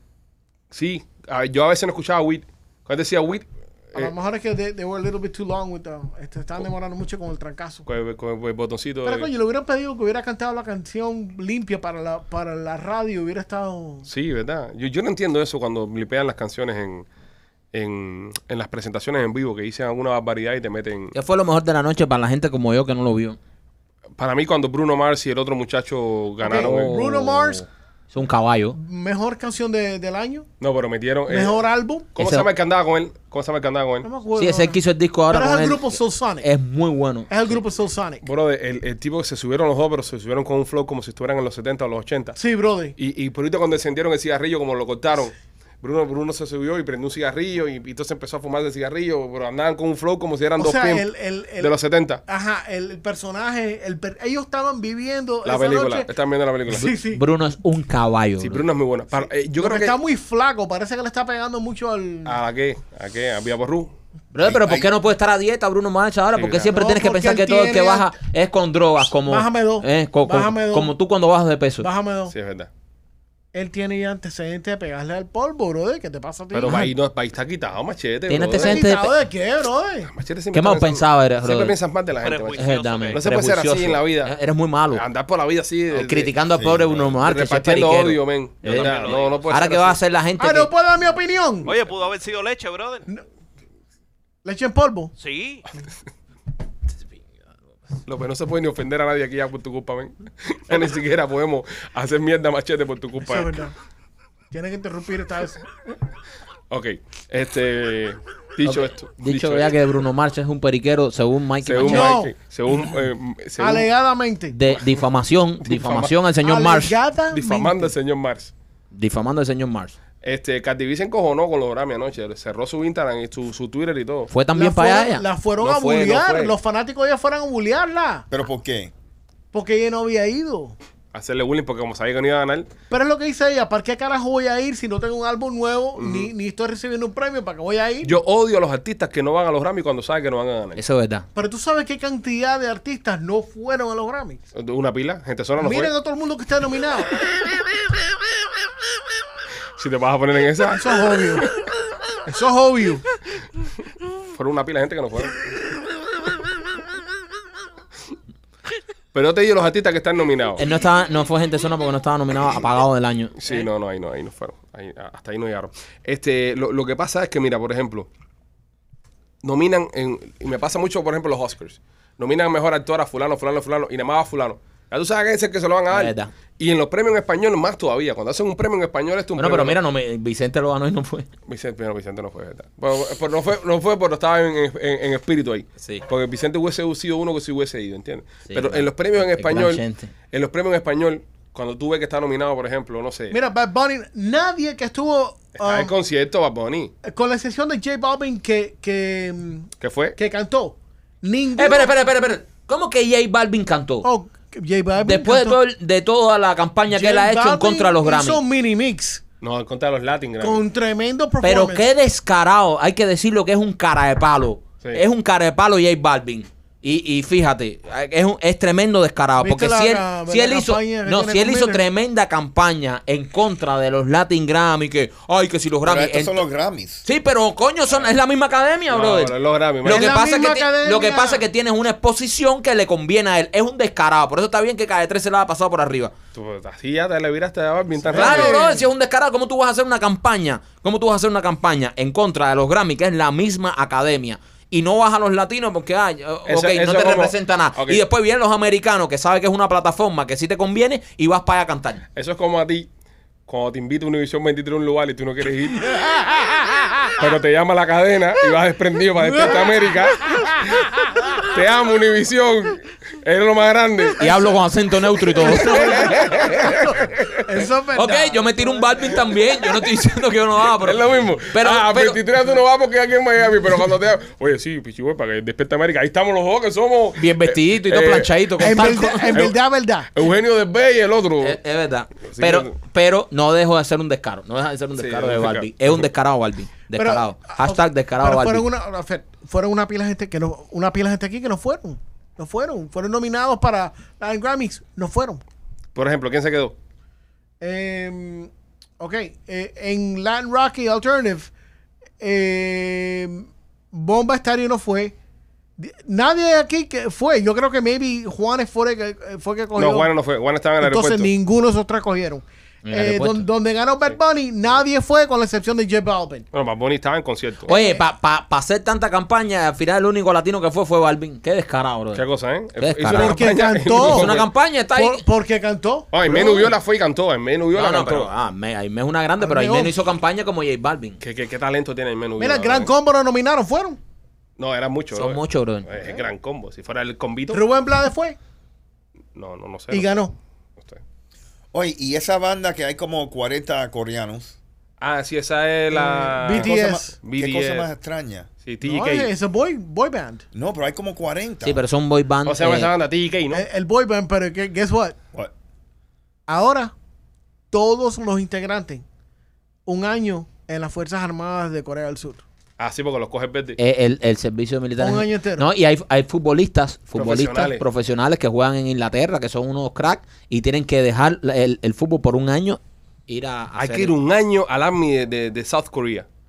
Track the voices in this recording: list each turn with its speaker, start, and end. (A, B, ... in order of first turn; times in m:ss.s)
0:00.7-0:04.1 A
0:03.9-0:07.8 B
0:07.8-0:09.3 A
0:09.0-0:14.1 B
0:14.0-0:17.1 A
0:17.7-0:21.1 A
0:21.1-0:23.4 C
0:24.2-0:27.2 A
0:26.4-0:27.6 B
0:26.5-0:28.8 C
0:28.8-0:30.5 B
0:30.6-0:31.6 A
0:31.3-0:32.1 B
0:32.1-0:34.1 A
0:32.2-0:32.5 C
0:34.0-0:36.5 B
0:34.3-0:37.3 C
0:37.3-0:38.2 B
0:38.2-0:42.4 A
0:42.4-0:43.0 B
0:43.0-0:51.0 A
0:50.6-0:51.7 B
0:51.6-0:52.2 A
0:52.2-0:56.1 B
0:55.4-0:56.9 A
0:56.7-0:57.2 B
0:56.7-0:58.6 C
0:58.4-1:00.0 A
0:59.2-1:02.4 B
1:02.2-1:03.9 A
1:04.3-1:11.9 C
1:04.4-1:04.9 D
1:06.3-1:06.7 A
1:06.6-1:08.1 B
1:09.2-1:10.9 B
1:11.8-1:12.3 B
1:12.3-1:12.7 A
1:13.5-1:16.9 B
1:16.5-1:18.9 A
1:16.6-1:16.9 C
1:18.3-1:19.1 C
1:18.6-1:20.1 B
1:20.0-1:24.3 A
1:20.5-1:21.8 C
1:22.2-1:23.2 E
1:22.5-1:25.0 C
1:24.9-1:26.3 A
1:25.9-1:30.7 C
1:26.5-1:27.1 D
1:27.2-1:30.0 A
1:28.6-1:29.5 E
1:30.4-1:31.7 B
1:31.6-1:33.0 E
1:34.4-1:35.1 B
1:35.2-1:35.7 E
1:38.0-1:43.6 A
1:43.2-1:43.7 B
1:44.5-1:45.6 B
1:46.7-1:49.8 A
1:48.6-1:52.2 C
1:51.6-1:53.9 A
1:51.8-1:52.3 B
1:53.6-1:54.6 B
1:54.5-1:56.9 C
1:55.6-1:56.2 A
1:56.4-1:57.9 B
1:57.3-1:58.5 A
1:58.9-1:59.9 C
2:00.2-2:04.3 A
2:04.3-2:05.2 C
2:04.5-2:08.2 B
2:05.6-2:06.6 A
2:08.3-2:08.9 D
2:09.5-2:10.8 B
2:11.1-2:12.7 A
2:12.9-2:18.2 B
2:16.0-2:16.3 A
2:18.0-2:20.8 A
2:20.8-2:21.3 C
2:21.3-2:24.4 B
2:24.5-2:25.9 A
2:25.6-2:27.2 B
2:29.8-2:31.5 A
2:30.7-2:31.5 B
2:32.2-2:33.1 B
2:34.3-2:35.4 A
2:39.1-2:40.6 A
2:40.6-2:43.6 C
2:43.4-2:48.1 A
2:49.4-2:59.8 A
2:55.9-2:56.3 C
2:59.4-3:01.3 C
3:01.5-3:13.4 A
3:08.5-3:10.1 C
3:13.3-3:15.9 B
3:15.6-3:16.9 A
3:17.0-3:21.9 B
3:19.8-3:20.2 A
3:21.6-3:24.1 C
3:24.0-3:25.6 B
3:25.0-3:28.4 C
3:26.9-3:29.2 B
3:29.4-3:30.6 A
3:30.4-3:31.9 B
3:31.4-3:46.4 C
3:39.4-3:41.8 B
3:45.8-3:47.0 D
3:47.0-3:56.1 C
3:48.9-3:50.2 A
3:49.8-3:51.4 B
3:56.3-3:58.6 A
3:58.1-3:58.9 B
3:58.1-4:12.0 C
4:06.5-4:08.0 A
4:12.2-4:12.9 A
4:13.5-4:16.1 A
4:17.2-4:20.8 A
4:19.2-4:20.5 B
4:21.4-4:24.5 A
4:24.2-4:26.1 C
4:25.4-4:27.6 A
4:25.4-4:29.3 B
4:27.9-4:32.2 C
4:30.7-4:39.6 A
4:37.2-4:39.5 C
4:38.6-4:40.1 B
4:40.1-4:41.6 A
4:41.4-4:48.6 C
4:42.2-4:42.7 A
4:45.0-4:45.7 A
4:46.9-4:55.4 B
4:55.9-4:56.8 A
4:57.6-5:01.5 B
5:02.2-5:05.1 B
5:05.8-5:10.1 B
5:09.7-5:11.3 A
5:10.8-5:16.5 B
5:12.8-5:13.4 C
5:16.5-5:17.7 A
5:17.6-5:22.2 C
5:17.7-5:18.0 B
5:22.1-5:24.5 A
5:22.8-5:25.2 C
5:23.1-5:24.4 B
5:24.9-5:26.7 B
5:26.1-5:28.3 A
5:27.7-5:31.2 C
5:29.4-5:30.0 B
5:31.2-5:32.9 A
5:32.4-5:34.0 B
5:34.6-5:37.6 A
5:35.1-5:36.0 C
5:37.5-5:38.4 B
5:39.3-5:40.1 A
5:39.9-5:40.3 B
5:41.7-5:44.6 D
5:45.0-5:47.9 A
5:45.9-5:47.1 B
5:46.5-5:48.5 D
5:48.6-5:49.3 A
5:48.8-5:50.4 B
5:50.5-5:51.8 D
5:51.6-5:52.9 C
5:52.4-5:53.6 A
5:53.5-5:55.2 B
5:56.5-5:56.9 B
5:57.7-5:59.0 B
5:59.8-6:02.4 B
6:02.8-6:03.8 A
6:03.8-6:14.1 C
6:05.0-6:05.7 B
6:07.2-6:07.8 A
6:13.8-6:16.3 A